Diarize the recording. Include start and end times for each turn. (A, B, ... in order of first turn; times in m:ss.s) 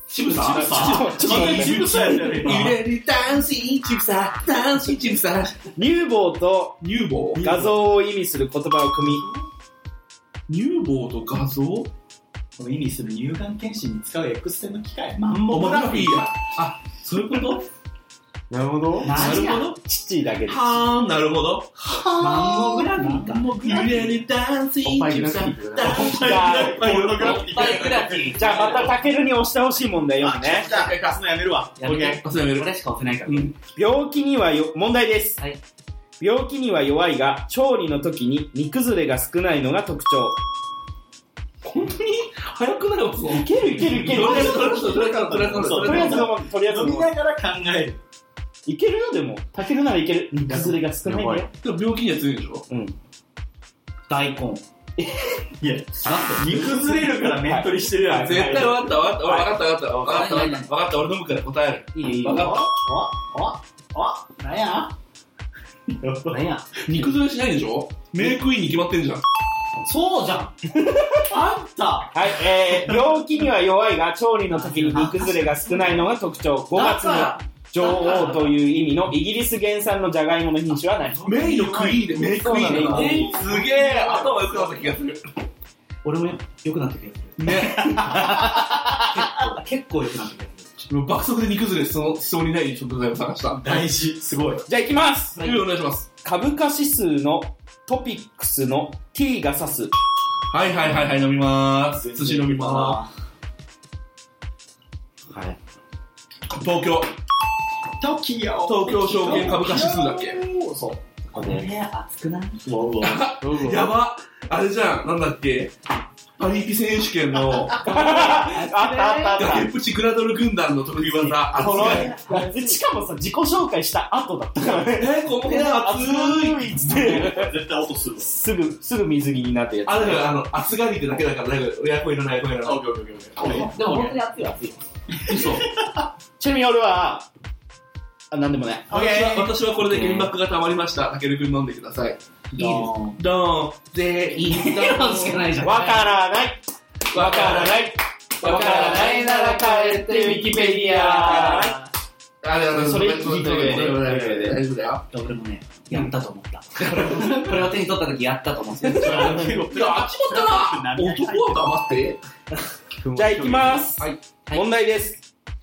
0:00.1-0:05.7 A
0:00.2-0:02.8 B
0:00.3-0:02.1 C
0:05.8-0:06.8 C
0:06.8-0:07.7 A
0:07.4-0:09.2 C
0:10.5-0:11.9 A
0:12.6-0:16.3 B
0:15.4-0:17.7 A
0:18.5-0:19.3 D
0:19.0-0:19.7 E
0:19.1-0:19.8 A
0:19.1-0:19.4 B
0:19.2-0:20.8 C
0:20.5-0:21.8 A
0:21.8-0:24.2 B
0:22.2-0:23.6 E
0:23.5-0:28.8 A
0:24.8-0:26.1 D
0:25.8-0:28.4 B
0:26.1-0:26.9 C
0:27.2-0:28.9 E
0:28.3-0:30.7 C
0:30.2-0:32.2 B
0:30.5-0:31.2 A
0:31.8-0:33.5 E
0:32.2-0:32.7 A
0:33.2-0:33.5 A
0:33.7-0:35.4 C
0:36.2-0:40.4 C
0:41.6-0:46.3 A
0:43.3-0:44.9 C
0:44.1-0:48.0 B
0:45.7-0:47.1 C
0:48.6-0:51.5 C
0:50.5-0:50.7 B
0:51.0-0:51.5 D
0:51.6-0:52.6 A
0:52.7-0:53.0 C
0:54.1-0:54.6 E
0:55.6-0:58.9 B
0:56.0-0:57.0 E
0:57.2-0:59.4 C
0:58.1-1:02.6 A
0:59.9-1:00.7 E
1:01.9-1:04.9 E
1:02.2-1:03.3 B
1:05.9-1:06.5 B
1:06.3-1:07.1 E
1:06.8-1:09.2 A
1:09.8-1:10.6 E
1:10.7-1:11.3 C
1:11.3-1:13.3 B
1:12.1-1:21.3 C
1:14.5-1:15.9 E
1:16.7-1:18.6 E
1:21.2-1:24.4 B
1:21.2-1:25.2 A
1:21.4-1:24.3 E
1:22.5-1:23.4 C
1:26.0-1:30.8 E
1:27.4-1:28.7 A
1:30.9-1:33.8 A
1:33.6-1:34.6 B
1:34.7-1:35.5 C
1:35.4-1:36.1 A
1:36.2-1:39.9 C
1:40.5-1:43.0 A
1:41.9-1:43.1 B
1:45.3-1:45.6 D
1:46.5-1:47.1 A
1:48.0-1:51.0 B
1:48.6-1:50.4 A
1:51.3-1:51.7 D
1:51.4-1:52.6 E
1:52.6-1:53.3 B
1:53.0-1:55.7 A
1:53.4-1:53.9 D
1:56.4-1:58.6 A
1:57.8-1:59.7 C
1:57.9-1:59.5 E
1:59.4-2:02.1 A
2:01.2-2:02.6 E
2:01.5-2:07.6 C
2:04.8-2:07.0 A
2:06.8-2:08.3 B
2:08.2-2:10.3 C
2:09.9-2:12.8 A
2:12.6-2:14.2 B
2:13.4-2:14.8 E
2:15.3-2:16.1 B
2:15.3-2:15.6 A
2:16.4-2:17.3 C
2:18.3-2:18.9 C
2:18.9-2:19.6 B
2:18.9-2:22.2 A
2:20.0-2:20.3 E
2:22.5-2:23.2 B
2:22.5-2:22.9 E
2:23.2-2:25.5 A
2:24.3-2:26.1 E
2:25.6-2:31.7 C
2:27.1-2:27.8 A
2:28.4-2:30.0 A
2:28.4-2:31.9 E
2:32.4-2:35.0 A
2:32.7-2:34.6 C
2:35.1-2:39.6 E
2:36.8-2:37.5 A
2:38.8-2:42.2 A
2:38.9-2:41.9 B
2:43.0-2:44.0 D
2:43.1-2:45.2 C